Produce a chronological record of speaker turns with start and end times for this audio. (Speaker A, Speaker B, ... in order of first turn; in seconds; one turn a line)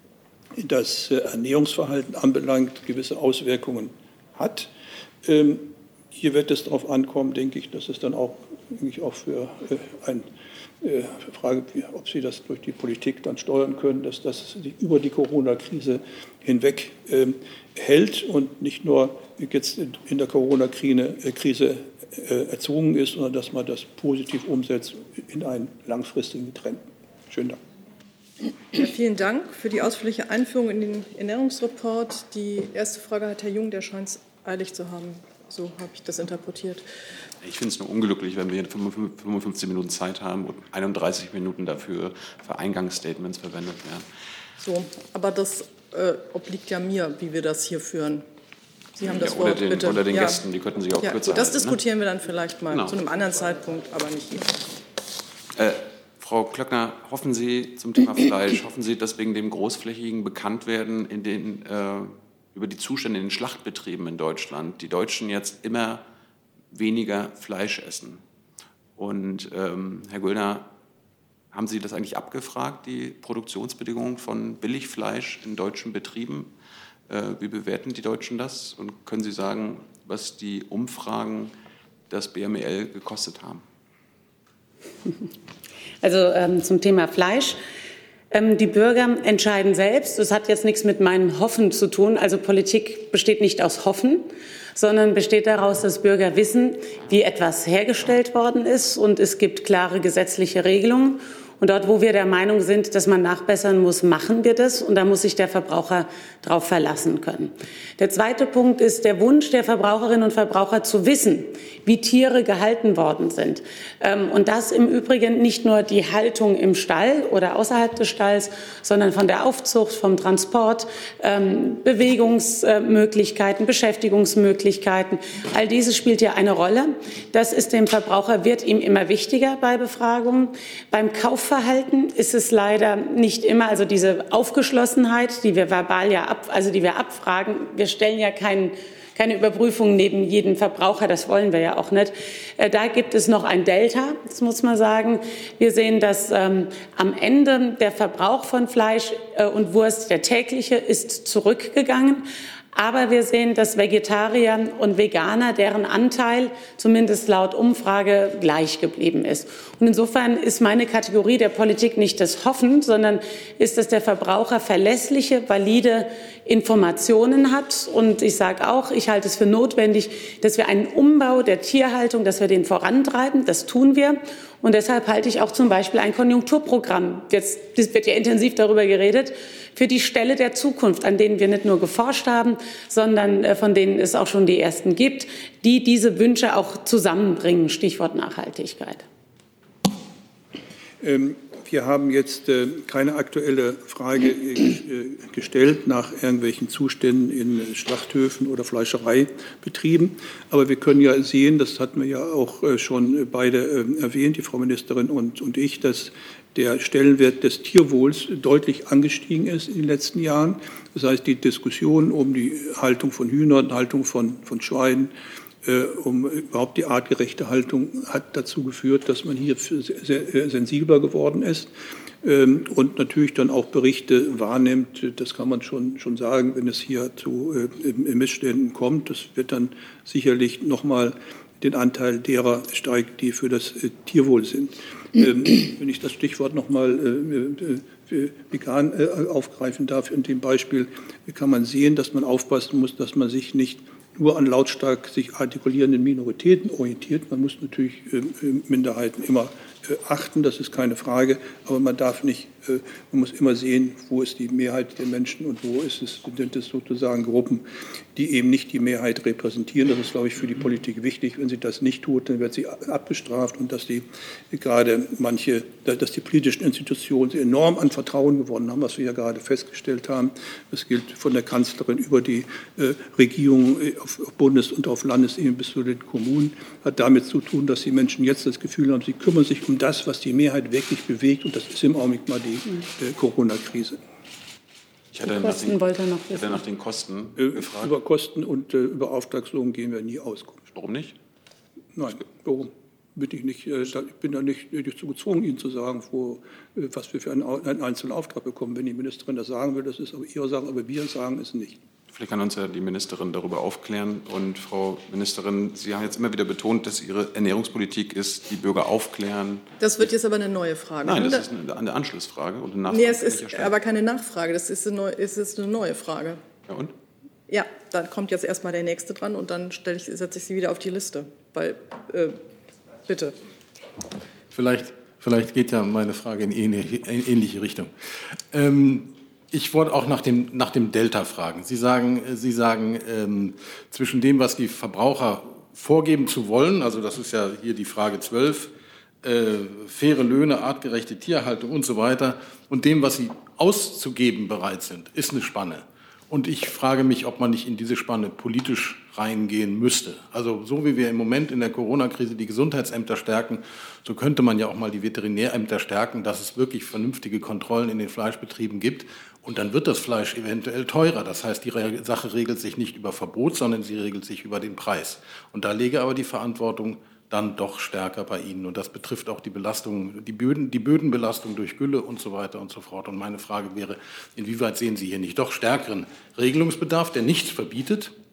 Speaker A: 0.5-4.7
Speaker A: 5.2-10.3
Speaker A: 10.8-27.6
Speaker B: 28.7-36.8
Speaker C: 37.4-44.0
Speaker B: 44.6-48.2
Speaker B: 49.0-50.4
Speaker C: 49.0-51.8
Speaker B: 51.0-54.5
Speaker C: 52.7-53.0
Speaker C: 55.5-66.0
Speaker C: 66.7-68.2
Speaker C: 69.0-70.7
Speaker C: 71.5-76.5
Speaker C: 77.1-81.5
Speaker C: 82.1-83.6
Speaker D: 86.0-87.6
Speaker D: 88.3-189.0
Speaker A: 191.0-221.7
Speaker A: 222.2-257.6
Speaker A: 258.1-284.0
Speaker C: 285.1-287.9
Speaker D: 285.2-286.6
Speaker A: 287.4-290.7
Speaker C: 290.7-291.1
Speaker A: 291.9-301.8
Speaker C: 302.1-309.6
Speaker B: 309.8-311.5
Speaker C: 311.0-313.7
Speaker B: 312.9-316.4
Speaker C: 316.7-316.9
Speaker B: 317.5-322.4
Speaker B: 323.1-323.3
Speaker E: 324.5-327.9
Speaker E: 328.5-338.7
Speaker E: 339.2-378.1